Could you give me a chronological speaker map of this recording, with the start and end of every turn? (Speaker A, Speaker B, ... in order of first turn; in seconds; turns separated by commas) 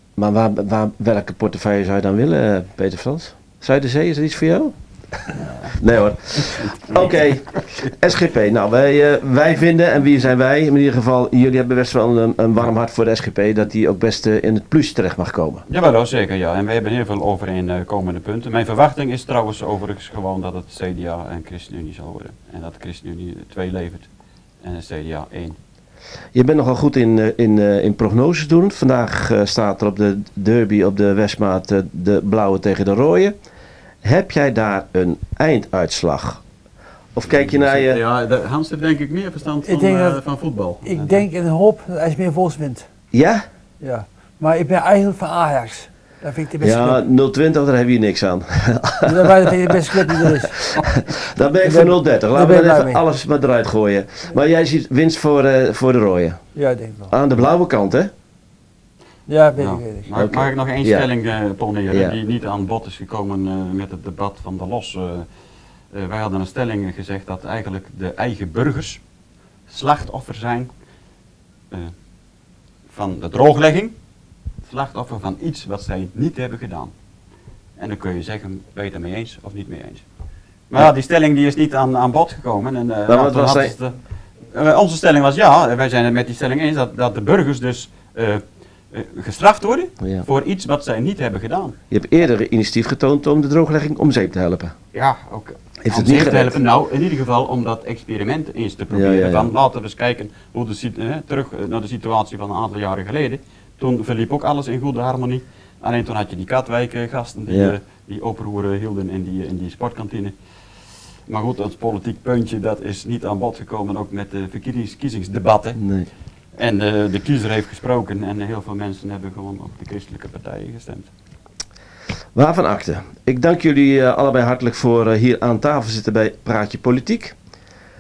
Speaker A: 0.2-15.7, Speaker B: 6.4-8.0, Speaker B: 15.7-24.1, Speaker B: 24.6-25.6, Speaker A: 26.3-33.3, Speaker A: 34.0-36.4, Speaker A: 37.1-38.0, Speaker B: 37.3-41.3, Speaker C: 39.6-40.2, Speaker C: 40.8-42.9, Speaker A: 43.1-43.4, Speaker C: 43.8-47.0, Speaker A: 46.6-56.4, Speaker C: 49.0-50.6, Speaker C: 51.6-53.0, Speaker C: 56.6-57.1, Speaker A: 57.1-58.1, Speaker C: 59.3-60.1, Speaker B: 59.6-65.3, Speaker A: 60.2-61.1, Speaker A: 61.9-62.2, Speaker B: 65.9-69.0, Speaker B: 69.7-70.7, Speaker B: 72.9-73.9, Speaker B: 74.6-76.9, Speaker B: 77.8-80.0, Speaker B: 80.7-83.9, Speaker A: 83.1-83.8, Speaker B: 84.5-91.8, Speaker A: 91.9-94.7, Speaker B: 94.9-110.3, Speaker A: 95.8-96.6, Speaker A: 98.9-99.5, Speaker A: 107.5-107.8, Speaker B: 111.3-115.8, Speaker A: 115.8-116.1, Speaker B: 116.6-121.1, Speaker A: 122.3-127.4